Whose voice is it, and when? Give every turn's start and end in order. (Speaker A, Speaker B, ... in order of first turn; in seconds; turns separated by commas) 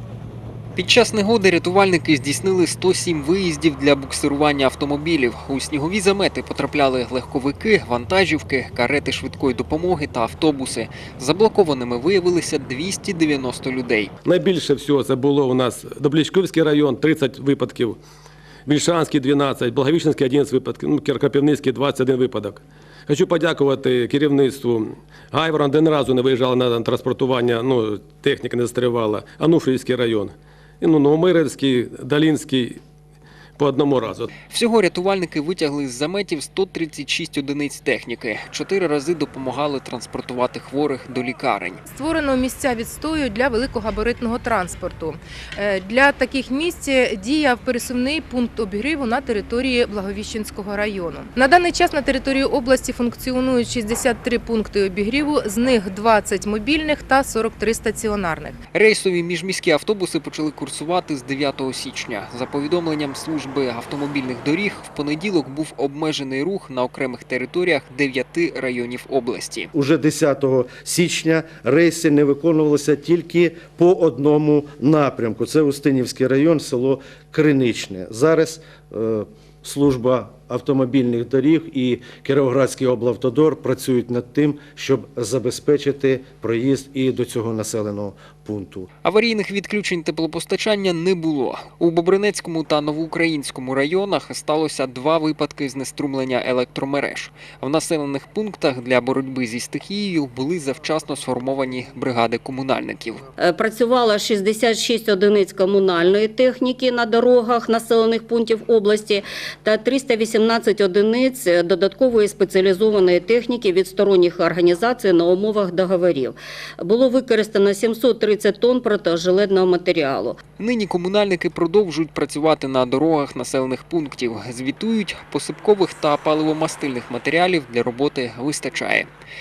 Speaker A: 0.8-14.1, Speaker B: 14.2-18.0, Speaker B: 18.7-32.8, Speaker B: 33.6-34.3, Speaker A: 34.5-41.8, Speaker C: 41.9-58.6, Speaker A: 58.7-69.7, Speaker D: 69.7-88.9, Speaker A: 89.0-103.2, Speaker E: 103.4-120.4, Speaker A: 120.6-129.1